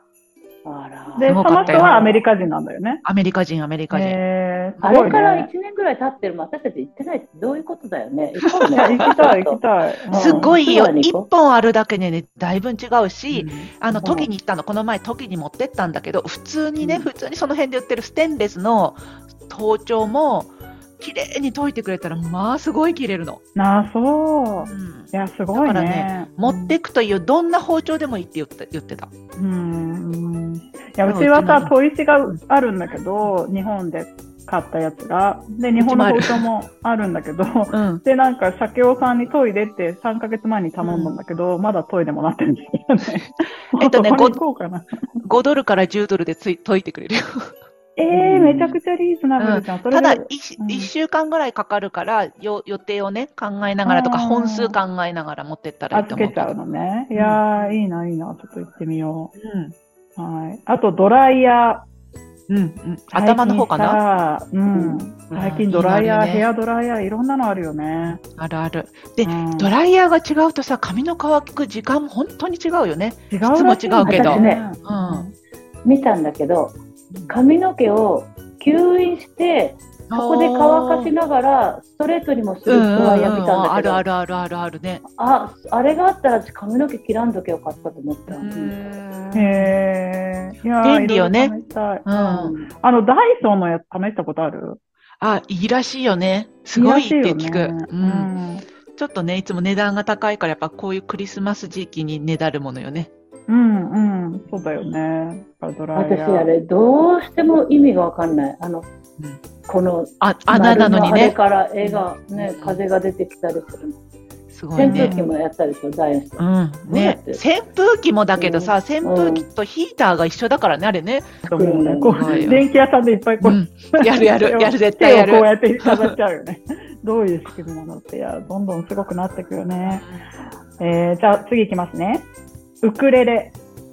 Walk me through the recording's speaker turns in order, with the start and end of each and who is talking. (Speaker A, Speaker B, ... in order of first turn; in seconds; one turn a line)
Speaker A: 0.6-2.2
Speaker B: 1.1-3.0
Speaker C: 1.3-1.9
Speaker C: 3.0-4.2
Speaker B: 3.9-5.5
Speaker C: 4.8-5.1
Speaker A: 4.8-9.6
Speaker C: 8.5-9.3
Speaker B: 8.7-10.6
Speaker A: 10.1-11.3
Speaker C: 10.1-23.4
Speaker B: 13.3-14.1
Speaker B: 23.5-26.8
Speaker C: 24.6-29.1
Speaker B: 29.4-45.2
Speaker C: 31.1-31.7
Speaker C: 35.8-36.5
Speaker C: 37.7-38.0
Speaker C: 40.8-41.1
Speaker C: 43.7-44.4
Speaker C: 45.2-47.6
Speaker B: 48.0-50.9
Speaker C: 48.1-48.8
Speaker C: 49.4-56.5
Speaker B: 53.8-54.8
Speaker B: 55.9-59.3
Speaker C: 57.1-57.4
Speaker C: 59.4-59.7
Speaker B: 60.2-61.8
Speaker C: 62.5-64.0
Speaker B: 63.1-68.2
Speaker A: 64.7-65.0
Speaker C: 65.3-66.5
Speaker C: 68.2-75.2
Speaker B: 69.2-69.7
Speaker B: 73.3-75.3
Speaker A: 74.0-74.6
Speaker A: 75.8-76.8
Speaker A: 77.3-84.0
Speaker C: 80.1-81.1
Speaker C: 82.7-85.0
Speaker A: 85.2-88.7
Speaker C: 88.3-89.7
Speaker B: 89.3-94.8
Speaker C: 90.8-91.5
Speaker C: 92.0-92.5
Speaker A: 92.2-92.7
Speaker C: 95.2-98.3
Speaker B: 96.7-98.6
Speaker C: 99.0-103.1
Speaker B: 103.5-106.5
Speaker A: 105.9-108.9
Speaker A: 109.7-114.0
Speaker C: 110.2-112.8
Speaker C: 114.5-115.1
Speaker A: 114.7-117.4
Speaker B: 114.8-115.3
Speaker C: 116.4-121.4
Speaker A: 118.3-119.5
Speaker B: 121.4-130.1
Speaker A: 121.5-122.5
Speaker C: 122.1-122.7
Speaker C: 123.4-126.1
Speaker C: 129.8-130.2
Speaker B: 130.8-132.3
Speaker B: 132.8-133.5